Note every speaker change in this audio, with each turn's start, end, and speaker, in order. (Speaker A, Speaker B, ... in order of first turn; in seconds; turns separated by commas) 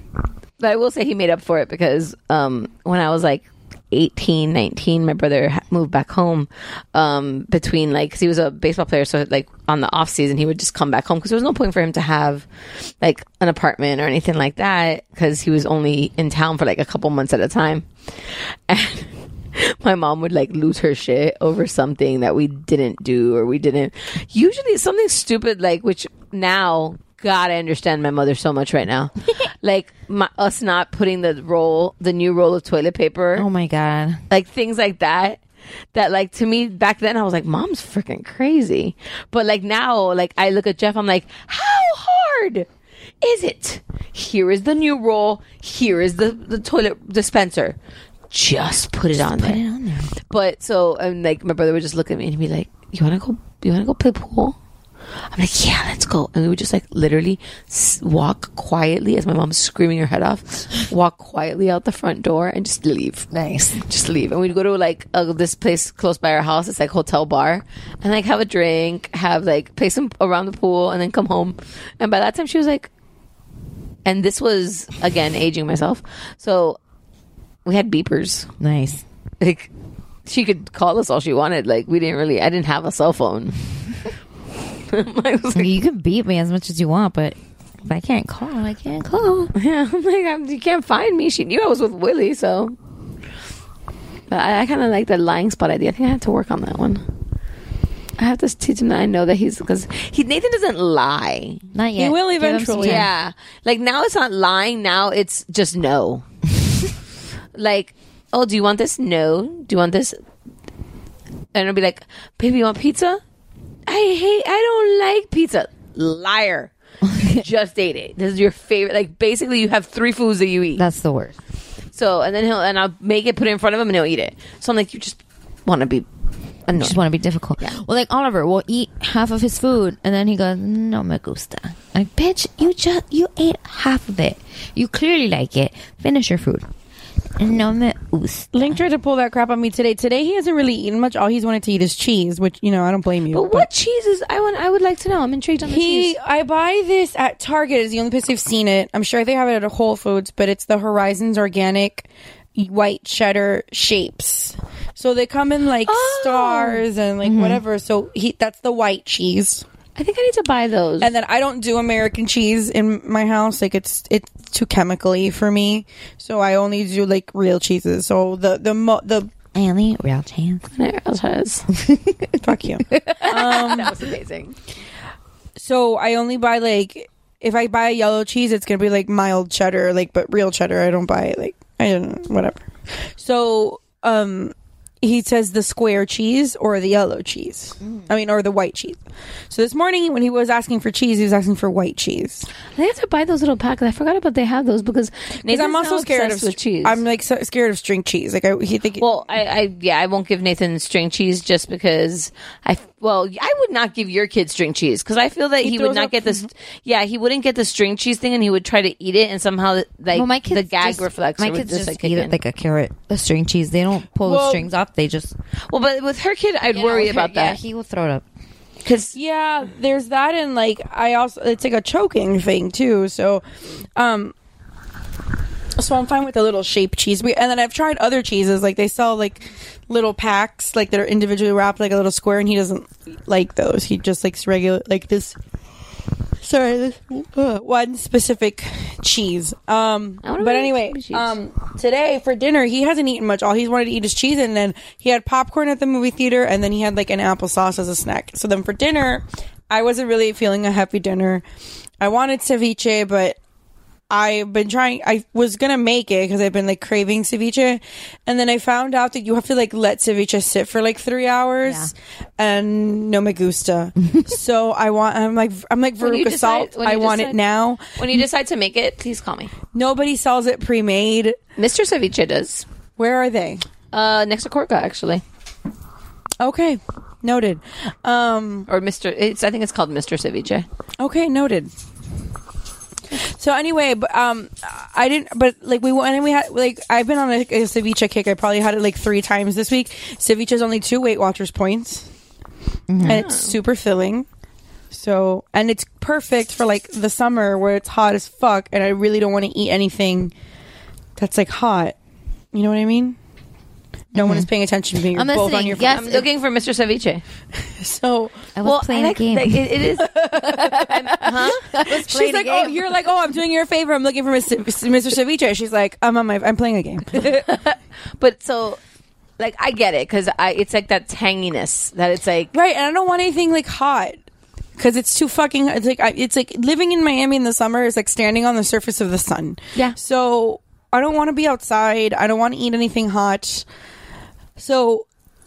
Speaker A: 0.6-12.5, Speaker A: 13.0-17.9, Speaker A: 18.7-33.5, Speaker B: 33.4-34.2, Speaker A: 34.3-35.4, Speaker A: 36.0-42.7, Speaker A: 43.2-47.8, Speaker A: 48.3-49.6, Speaker B: 49.2-50.1, Speaker A: 50.3-54.6, Speaker A: 55.3-63.3, Speaker B: 63.3-63.8, Speaker A: 63.8-72.9, Speaker A: 74.0-76.8, Speaker A: 77.7-78.5, Speaker B: 78.6-79.0, Speaker A: 79.4-79.7, Speaker A: 80.3-83.6, Speaker A: 84.9-85.7, Speaker B: 85.5-89.5, Speaker A: 89.5-92.8, Speaker A: 94.3-97.0, Speaker A: 98.2-101.6, Speaker B: 101.7-103.1, Speaker C: 102.0-103.1, Speaker A: 102.8-106.3, Speaker A: 107.5-110.2, Speaker A: 111.5-113.2, Speaker A: 113.9-116.7, Speaker B: 117.0-117.4, Speaker A: 117.2-120.8, Speaker B: 120.8-121.4, Speaker A: 121.9-126.1, Speaker A: 126.7-127.0, Speaker B: 126.8-136.7, Speaker B: 137.4-138.8, Speaker C: 138.5-143.7, Speaker A: 143.3-146.2, Speaker C: 145.7-159.6, Speaker A: 155.9-156.8, Speaker B: 157.2-157.6, Speaker A: 160.0-161.1, Speaker C: 161.0-169.3, Speaker B: 169.5-170.7, Speaker A: 170.7-171.7, Speaker B: 171.7-172.4, Speaker C: 172.4-173.9, Speaker A: 173.2-174.6, Speaker C: 175.6-182.7, Speaker C: 183.2-189.0, Speaker C: 189.5-192.5, Speaker A: 192.8-197.0, Speaker C: 195.5-199.1, Speaker A: 199.0-212.4, Speaker C: 205.6-206.5, Speaker B: 210.1-215.4, Speaker C: 214.2-214.7, Speaker A: 215.7-217.6, Speaker B: 216.7-218.2, Speaker A: 218.8-219.1, Speaker C: 219.2-223.4, Speaker C: 224.0-224.3, Speaker C: 225.8-235.4, Speaker C: 236.4-251.4, Speaker A: 240.2-241.4, Speaker C: 252.0-253.4, Speaker C: 254.1-267.8, Speaker B: 261.6-261.9, Speaker A: 266.0-267.4, Speaker A: 268.0-269.5, Speaker C: 269.7-271.4, Speaker A: 271.6-272.6, Speaker C: 273.0-273.6, Speaker A: 273.9-275.2, Speaker C: 276.4-278.7, Speaker A: 278.7-280.7, Speaker C: 281.0-281.7, Speaker C: 283.2-292.1, Speaker B: 292.9-293.2, Speaker C: 293.0-294.3, Speaker A: 293.0-293.5, Speaker C: 294.9-300.3, Speaker C: 301.2-301.9, Speaker C: 302.5-303.2, Speaker B: 304.1-304.5, Speaker C: 304.1-306.2, Speaker B: 305.1-306.2, Speaker A: 305.9-307.2, Speaker C: 307.8-308.5, Speaker B: 308.6-312.8, Speaker A: 308.6-312.6, Speaker C: 310.1-317.3, Speaker A: 317.2-318.8, Speaker A: 319.4-322.5, Speaker C: 322.5-324.2, Speaker C: 324.8-333.6, Speaker C: 334.6-335.1